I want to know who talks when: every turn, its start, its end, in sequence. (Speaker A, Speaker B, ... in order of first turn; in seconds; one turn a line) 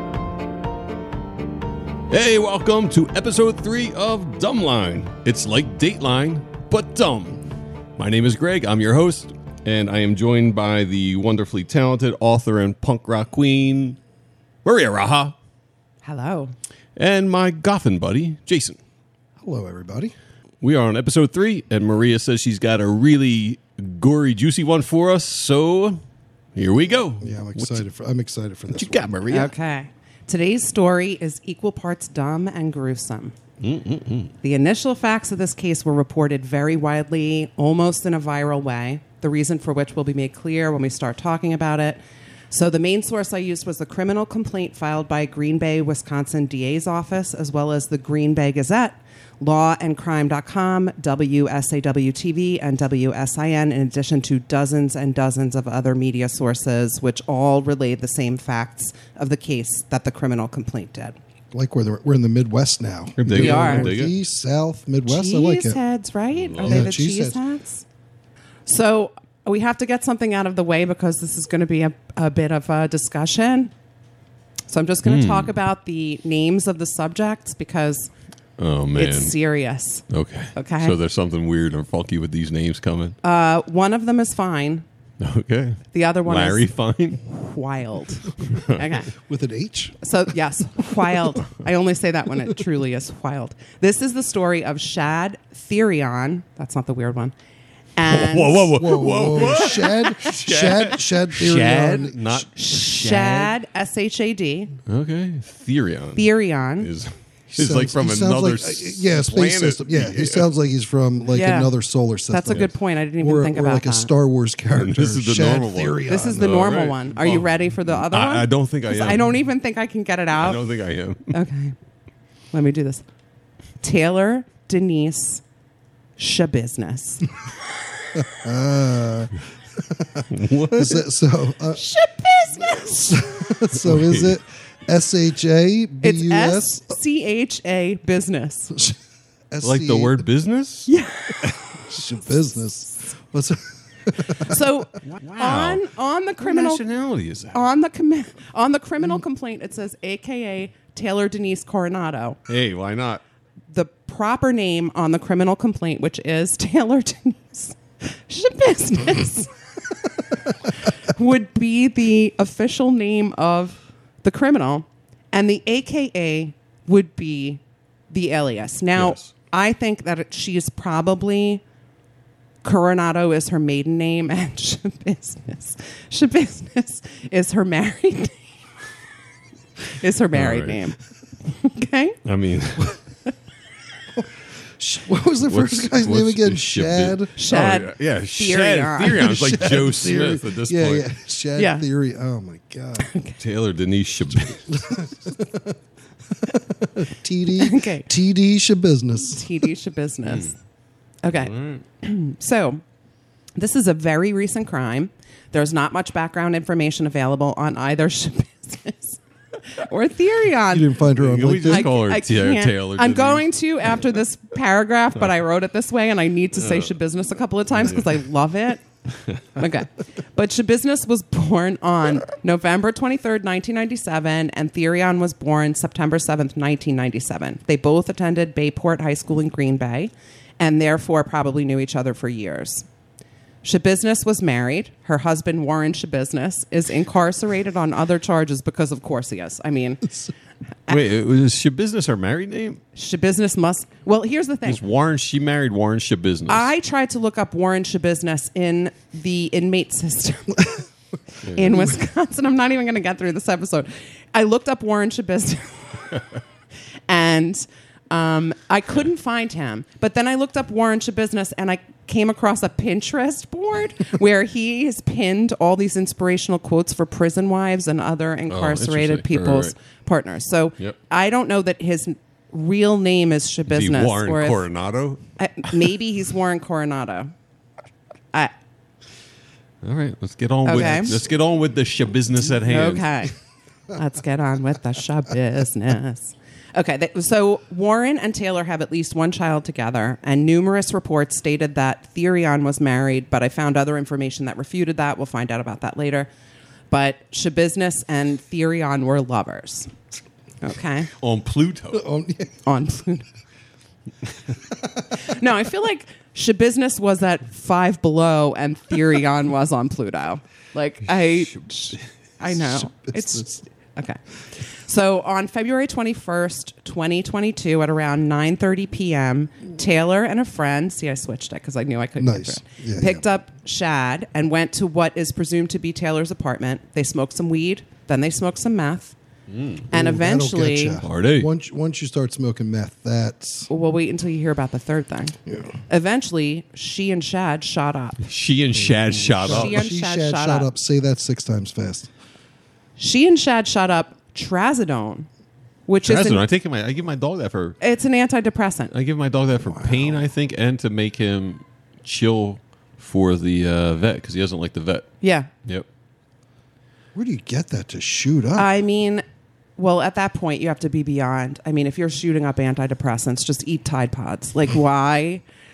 Speaker A: 2.1-7.4
Speaker A: 8.0-14.0
Speaker A: 14.7-15.3
Speaker B: 16.0-16.5
Speaker A: 17.0-18.8
Speaker C: 19.4-20.1
Speaker A: 20.6-26.0
Speaker A: 26.6-27.8
Speaker C: 27.2-29.0
Speaker A: 28.7-29.5
Speaker B: 29.3-33.4
Speaker A: 33.6-34.3
Speaker B: 34.4-42.0
Speaker B: 42.5-61.2
Speaker C: 61.5-65.8
Speaker A: 63.2-64.1
Speaker B: 63.3-64.0
Speaker B: 65.1-67.8
Speaker A: 66.3-67.0
Speaker C: 66.6-67.4
Speaker B: 68.7-73.7
Speaker B: 74.7-78.1
Speaker A: 75.0-75.5
Speaker A: 78.6-79.4
Speaker B: 78.9-81.0
Speaker A: 80.1-83.2
Speaker B: 83.2-84.8
Speaker A: 85.2-87.2
Speaker B: 85.9-86.7
Speaker B: 87.2-89.1
Speaker A: 88.5-88.8
Speaker C: 89.1-90.0
Speaker B: 90.0-97.3
Speaker B: 98.0-98.8
Speaker A: 98.1-103.5
Speaker C: 98.7-102.5
Speaker B: 102.5-104.7
Speaker A: 104.9-110.5
Speaker B: 106.2-106.9
Speaker C: 107.6-116.6
Speaker B: 111.3-111.7
Speaker B: 112.3-114.1
Speaker A: 114.8-119.3
Speaker B: 116.1-120.7
Speaker A: 120.4-121.4
Speaker B: 121.3-121.8
Speaker B: 122.5-123.0
Speaker B: 123.8-125.4
Speaker B: 126.2-127.3
Speaker C: 128.2-131.8
Speaker A: 130.3-131.0
Speaker B: 131.7-133.2
Speaker C: 132.6-136.7
Speaker A: 133.7-134.4
Speaker B: 136.0-138.8
Speaker C: 139.5-140.3
Speaker A: 139.6-140.9
Speaker B: 140.9-141.5
Speaker C: 141.9-144.6
Speaker B: 144.4-146.8
Speaker A: 145.1-145.8
Speaker A: 146.4-147.6
Speaker B: 147.5-152.4
Speaker A: 152.5-153.2
Speaker B: 153.7-159.5
Speaker B: 160.6-171.6
Speaker A: 168.9-169.3
Speaker B: 172.6-178.5
Speaker B: 179.9-182.2
Speaker A: 180.3-180.8
Speaker A: 182.2-183.0
Speaker C: 184.8-187.4
Speaker A: 185.5-191.1
Speaker B: 187.4-189.4
Speaker C: 189.2-193.1
Speaker B: 191.6-191.8
Speaker B: 193.0-193.4
Speaker A: 193.4-195.0
Speaker C: 194.7-195.8
Speaker C: 196.3-199.5
Speaker B: 197.6-198.1
Speaker B: 199.3-200.6
Speaker A: 200.3-200.5
Speaker B: 201.2-202.8
Speaker A: 201.3-201.8
Speaker B: 203.6-211.0
Speaker C: 210.7-211.9
Speaker A: 211.2-213.5
Speaker B: 211.7-218.8
Speaker B: 219.5-232.9
Speaker B: 233.6-240.2
Speaker A: 240.9-242.8
Speaker B: 242.9-244.8
Speaker A: 244.7-246.7
Speaker B: 246.5-250.9
Speaker B: 251.4-256.2
Speaker A: 251.4-251.9
Speaker B: 257.1-274.7
Speaker A: 268.5-269.7
Speaker A: 273.7-275.2
Speaker B: 275.4-277.3
Speaker A: 279.8-283.2
Speaker B: 280.6-281.2
Speaker B: 282.6-283.3
Speaker B: 283.9-296.3
Speaker B: 296.9-299.9
Speaker B: 300.6-301.1
Speaker A: 301.2-302.1
Speaker C: 301.9-302.6
Speaker B: 302.6-303.3
Speaker C: 304.7-305.1
Speaker B: 305.1-329.2
Speaker C: 312.5-313.6
Speaker C: 322.2-323.2
Speaker A: 329.5-329.9
Speaker C: 329.9-333.7
Speaker B: 329.9-331.0
Speaker A: 331.0-331.5
Speaker B: 333.7-335.4
Speaker B: 335.9-338.3
Speaker A: 338.2-339.9
Speaker C: 338.8-342.1
Speaker B: 339.4-340.7
Speaker B: 343.0-345.3
Speaker B: 345.9-346.4
Speaker A: 346.0-347.8
Speaker B: 347.8-348.9
Speaker A: 348.9-355.1
Speaker C: 349.6-350.2
Speaker B: 355.2-355.5
Speaker C: 357.1-358.7
Speaker B: 358.6-359.2
Speaker B: 359.8-365.4